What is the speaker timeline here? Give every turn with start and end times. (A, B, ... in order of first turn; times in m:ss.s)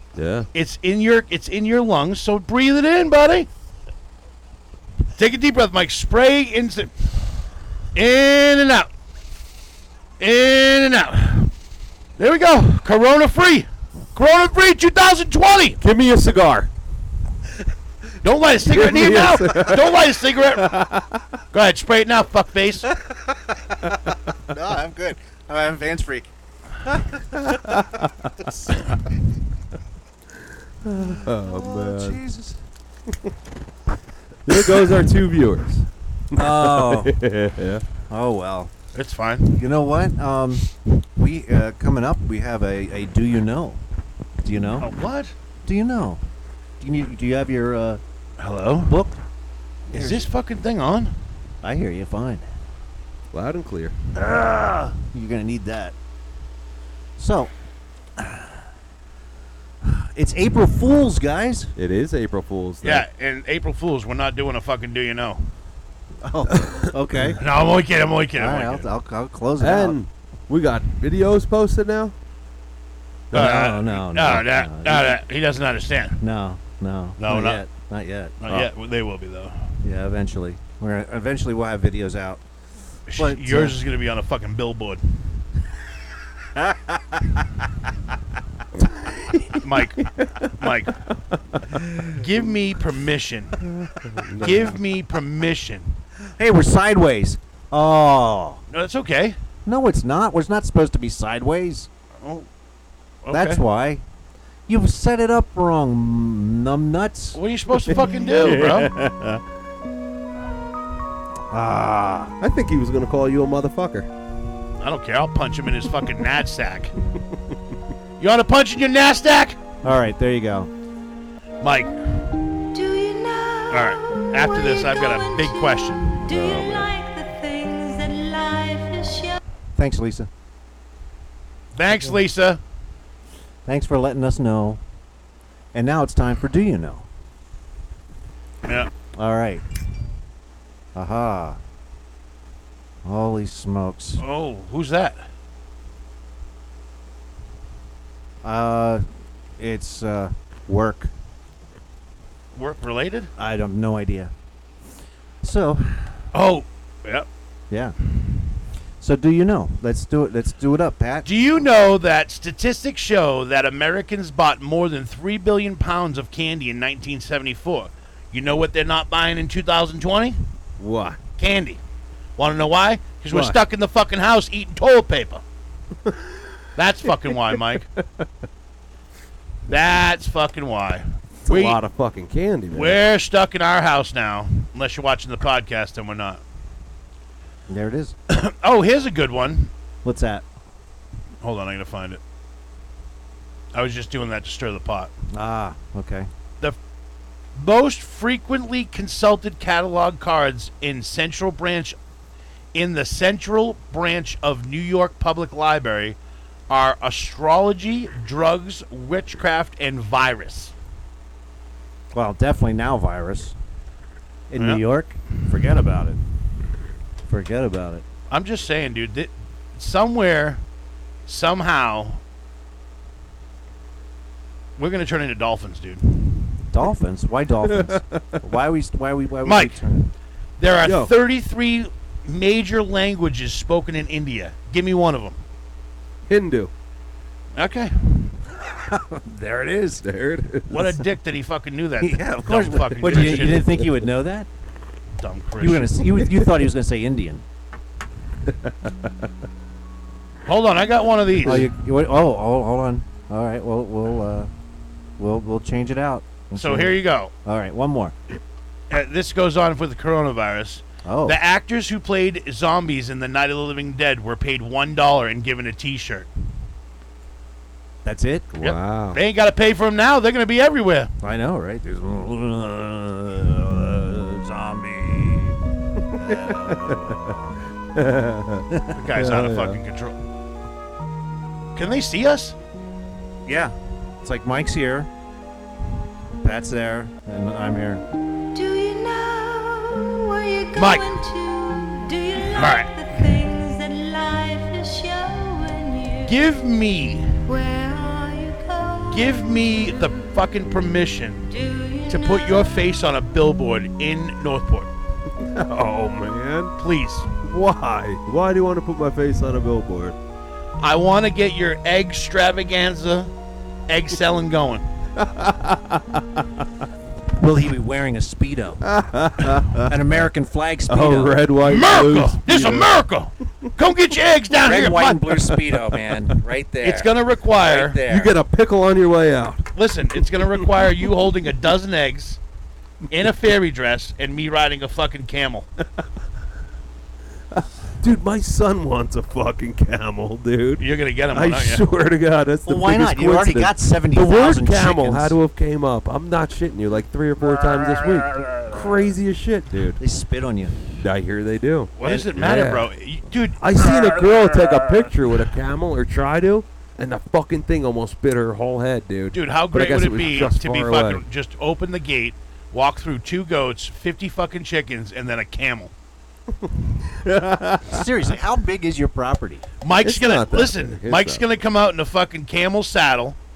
0:00.2-0:00.5 A
0:00.5-0:03.5 B
0:05.2-0:07.1 B
0:07.9-0:08.9 B
0:10.2-0:11.5 B
0:12.2-0:15.8 B
0:15.8-0:16.7 A
0:18.2-0:20.8 B
0:18.6-0:21.4 A
0:21.5-0:22.9 B
0:24.4-0:26.3 C
0:26.8-0:27.8 C
0:27.5-0:28.3 A
0:28.4-0:28.8 C
0:30.8-0:32.2 A
0:31.0-0:32.6 C
0:34.4-0:37.8 A
0:36.3-0:37.1 C
0:38.1-0:38.7 C
0:38.9-0:39.7 B
0:39.5-0:43.8 C
0:44.4-0:44.9 C
0:44.8-0:45.3 B
0:45.6-0:46.2 C
0:46.8-0:48.0 C
0:48.4-0:49.0 B
0:48.9-0:49.2 C
0:49.9-0:50.3 C
0:49.9-0:51.2 B
0:51.6-0:52.5 C
0:53.3-0:53.9 A
0:54.1-0:55.9 C
0:57.2-0:57.5 C
0:59.8-1:01.7 C
1:01.8-1:03.0 A
1:02.8-1:05.5 B
1:06.2-1:07.4 C
1:06.6-1:07.3 A
1:07.4-1:08.9 B
1:08.4-1:10.0 C
1:09.6-1:12.1 A
1:13.3-1:13.7 A
1:13.3-1:16.2 B
1:13.3-1:15.2 C
1:16.2-1:18.3 C
1:17.2-1:17.6 B
1:18.4-1:19.7 B
1:19.8-1:22.4 C
1:23.1-1:25.2 B
1:23.2-1:23.8 C
1:28.7-1:32.2 A
1:29.6-1:31.0 B
1:32.1-1:33.6 B
1:33.6-1:34.8 A
1:34.4-1:36.0 B
1:36.4-1:38.6 C
1:38.7-1:39.4 B
1:39.6-1:41.9 C
1:42.2-1:42.5 B
1:43.2-1:43.6 B
1:43.3-1:44.0 C
1:44.7-1:47.4 C
1:47.3-1:48.9 B
1:47.8-1:49.3 A
1:48.4-1:49.2 C
1:51.5-1:52.3 C
1:52.4-1:54.1 A
1:54.8-1:56.9 B
1:57.3-1:57.6 A
1:58.2-1:59.6 B
1:59.8-2:00.7 C
2:01.6-2:02.3 B
2:02.7-2:09.4 D
2:03.7-2:06.1 B
2:06.3-2:06.9 A
2:09.7-2:10.3 C
2:11.7-2:12.6 B
2:13.6-2:14.8 C
2:15.7-2:17.0 C
2:18.6-2:18.9 B
2:19.2-2:19.6 C
2:20.9-2:21.6 C
2:23.0-2:24.2 C
2:24.2-2:25.2 B
2:28.4-2:29.0 C
2:29.6-2:31.1 C
2:32.5-2:33.3 B
2:33.4-2:34.3 C
2:35.4-2:36.2 C
2:36.3-2:37.3 B
2:39.0-2:41.3 C
2:41.2-2:50.4 B
2:50.8-2:51.2 A
2:51.4-2:51.8 B
2:52.4-2:55.4 B
2:53.3-2:53.6 A
2:56.0-2:56.5 A
2:56.8-2:57.9 B
2:57.3-2:58.3 A
2:59.7-3:01.8 B
3:01.4-3:03.0 A
3:02.7-3:06.4 B
3:07.7-3:08.2 C
3:08.3-3:09.7 B
3:10.0-3:10.4 C
3:11.4-3:12.2 B
3:13.7-3:15.1 B
3:15.3-3:16.3 C
3:17.6-3:22.0 B
3:22.7-3:26.2 B
3:26.7-3:30.7 B
3:32.1-3:33.5 C
3:34.5-3:36.2 C
3:34.6-3:34.8 B
3:37.3-3:38.0 C
3:38.3-3:40.6 B
3:41.2-3:42.2 B
3:44.8-3:46.6 B
3:46.7-3:50.0 C
3:47.6-3:48.4 A
3:49.4-3:55.4 B
3:50.8-3:51.1 A
3:56.3-3:56.7 A
3:57.6-3:58.3 B
3:58.8-4:00.0 C
4:00.0-4:01.0 A
4:00.7-4:03.7 B
4:02.0-4:04.5 C
4:03.0-4:03.9 A
4:05.2-4:06.1 B
4:05.6-4:07.4 C
4:08.4-4:09.3 A
4:10.4-4:11.6 B
4:11.4-4:14.5 C
4:15.2-4:18.2 C
4:16.6-4:17.3 B
4:18.9-4:26.3 B
4:21.0-4:21.4 C
4:28.0-4:28.7 C
4:28.6-4:29.2 A
4:28.6-4:31.1 B
4:31.2-4:37.6 C
4:36.0-4:37.4 A
4:37.9-4:39.8 A
4:38.9-4:40.2 B
4:41.8-4:42.6 B
4:43.4-4:45.1 C
4:46.4-4:48.0 C
4:48.5-4:56.4 D
4:50.7-4:51.1 B
4:52.4-4:53.3 B
4:56.2-4:57.4 B
4:57.4-5:00.2 D
4:59.1-5:01.5 B
5:01.5-5:02.8 D
5:02.1-5:04.9 B
5:05.4-5:06.7 A
5:06.8-5:07.3 B
5:07.4-5:10.2 A
5:10.8-5:13.3 B
5:13.9-5:14.8 B
5:15.2-5:16.6 A
5:17.4-5:18.8 C
5:18.8-5:20.2 A
5:19.9-5:21.4 C
5:20.9-5:23.0 A
5:21.6-5:25.4 B
5:24.6-5:28.3 C
5:25.7-5:26.4 A
5:26.8-5:28.0 B
5:28.0-5:31.1 A
5:29.7-5:32.4 B
5:33.1-5:35.7 B
5:37.5-5:50.0 A
5:40.8-5:41.8 B
5:42.6-5:45.4 C
5:50.0-5:50.8 C
5:51.0-5:52.9 A
5:52.0-5:53.6 B
5:52.0-5:52.3 C
5:53.6-6:01.2 A
5:59.3-6:05.9 B
6:06.6-6:08.1 A
6:07.8-6:09.6 C
6:09.8-6:13.4 B
6:10.0-6:11.4 A